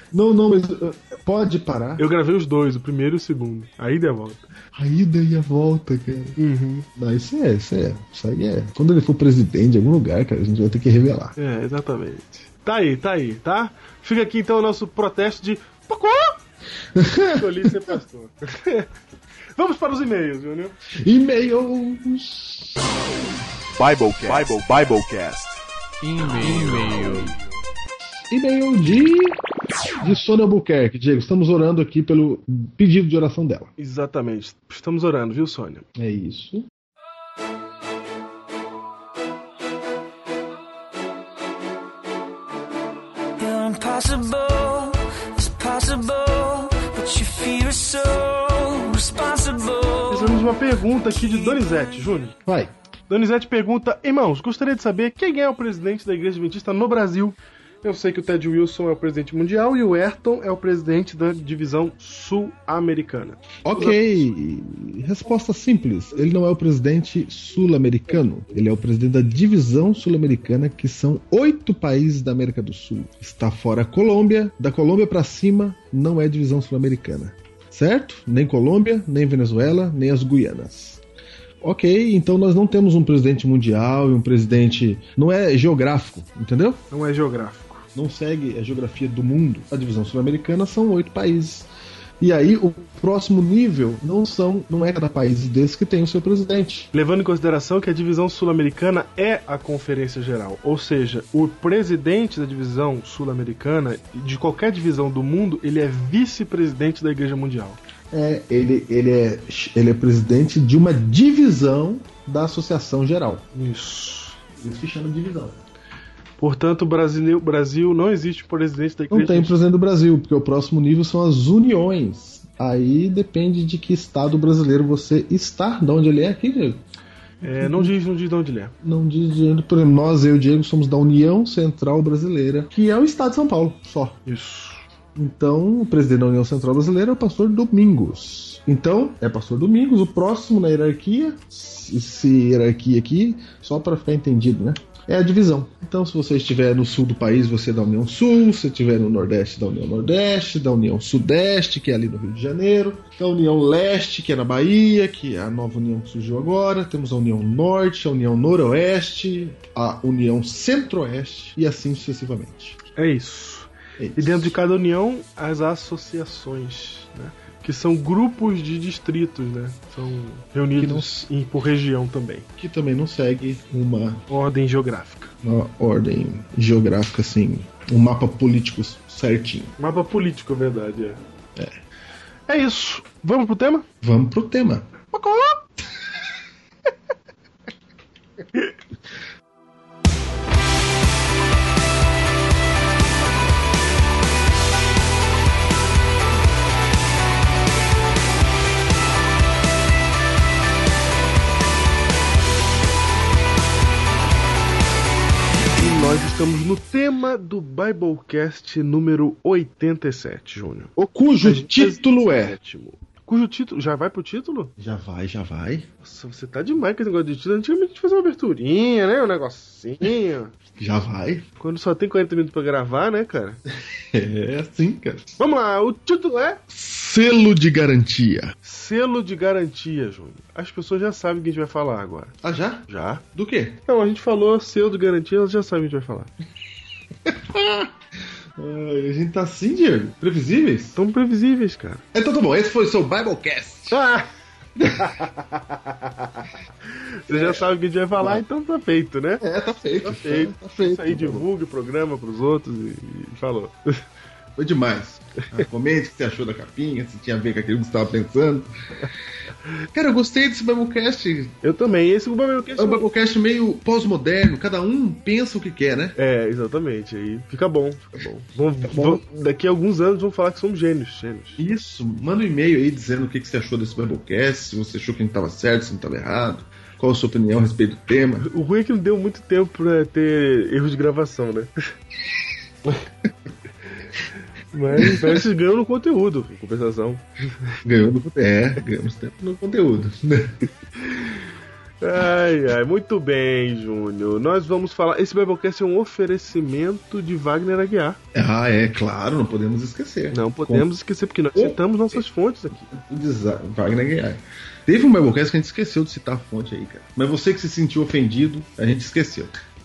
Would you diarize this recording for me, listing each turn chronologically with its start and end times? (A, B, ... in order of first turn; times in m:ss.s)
0:00.1-0:02.0 A
0:02.0-0:04.4 B
0:04.7-0:06.4 A
0:06.4-0:06.9 B
0:07.0-0:11.3 A
0:11.4-0:16.4 B
0:16.9-0:17.9 A
0:17.3-0:18.9 B
0:19.6-0:20.8 B
0:20.9-0:22.7 A
0:23.8-0:27.4 C
0:26.2-0:27.3 A
0:28.3-0:29.4 A
0:30.0-0:33.7 A
0:33.8-0:35.8 B
0:36.0-0:36.7 A
0:43.4-0:50.5 D
0:50.1-0:52.4 B
0:52.4-0:52.7 A
0:53.1-1:04.0 B
1:03.6-1:21.0 A
1:21.6-1:26.8 A
1:26.9-1:27.9 B
1:27.9-1:31.7 A
1:32.2-1:36.9 A
1:36.9-1:47.8 B
1:48.1-1:53.4 A
1:53.5-1:54.4 B
1:54.6-1:55.6 A
1:56.4-1:59.6 B
1:59.1-2:06.8 A
2:07.4-2:08.7 B
2:07.6-2:07.9 A
2:08.8-2:14.2 A
2:14.2-2:14.8 B
2:15.1-2:42.8 A
2:43.0-2:52.4 B
2:44.0-2:44.5 A
2:50.7-2:51.3 A
2:52.6-2:54.2 A
2:54.3-2:55.3 B
2:55.4-2:59.7 A
2:59.8-3:01.2 B
3:02.5-3:03.9 B
3:04.0-3:05.0 A
3:05.1-3:05.6 B
3:25.7-3:30.9 B
3:31.0-3:32.6 A
3:31.4-3:34.7 B
3:34.8-3:35.9 A
3:36.0-3:40.5 B
3:40.8-3:41.4 A
3:41.6-3:43.6 B
3:44.0-3:45.3 A
3:45.4-3:46.6 B
3:46.7-3:48.5 A
3:48.6-3:52.4 B
3:52.4-3:53.8 A
3:52.9-3:53.2 B
3:53.9-3:56.3 B
3:57.2-3:57.9 A
3:58.6-4:01.0 A
4:01.0-4:02.0 B
4:02.1-4:04.0 A
4:03.9-4:04.3 B
4:04.8-4:05.0 A
4:04.9-4:06.5 B
4:07.2-4:09.4 B
4:07.3-4:07.6 A
4:08.2-4:08.4 A
4:09.4-4:11.5 A
4:10.0-4:14.0 B
4:14.6-4:18.7 A
4:19.9-4:21.5 A
4:21.6-4:23.0 B
4:22.8-4:26.1 A
4:26.2-4:31.6 B
4:28.8-4:29.2 A
4:31.6-4:38.5 A
4:38.4-4:41.7 B
4:44.7-4:47.8 B
4:44.9-4:45.4 A
4:47.8-4:50.7 A
4:51.0-4:51.4 B
4:52.0-4:58.2 B
4:58.3-5:00.9 A
5:00.3-5:02.9 B
5:01.5-5:01.8 A
5:02.9-5:09.5 A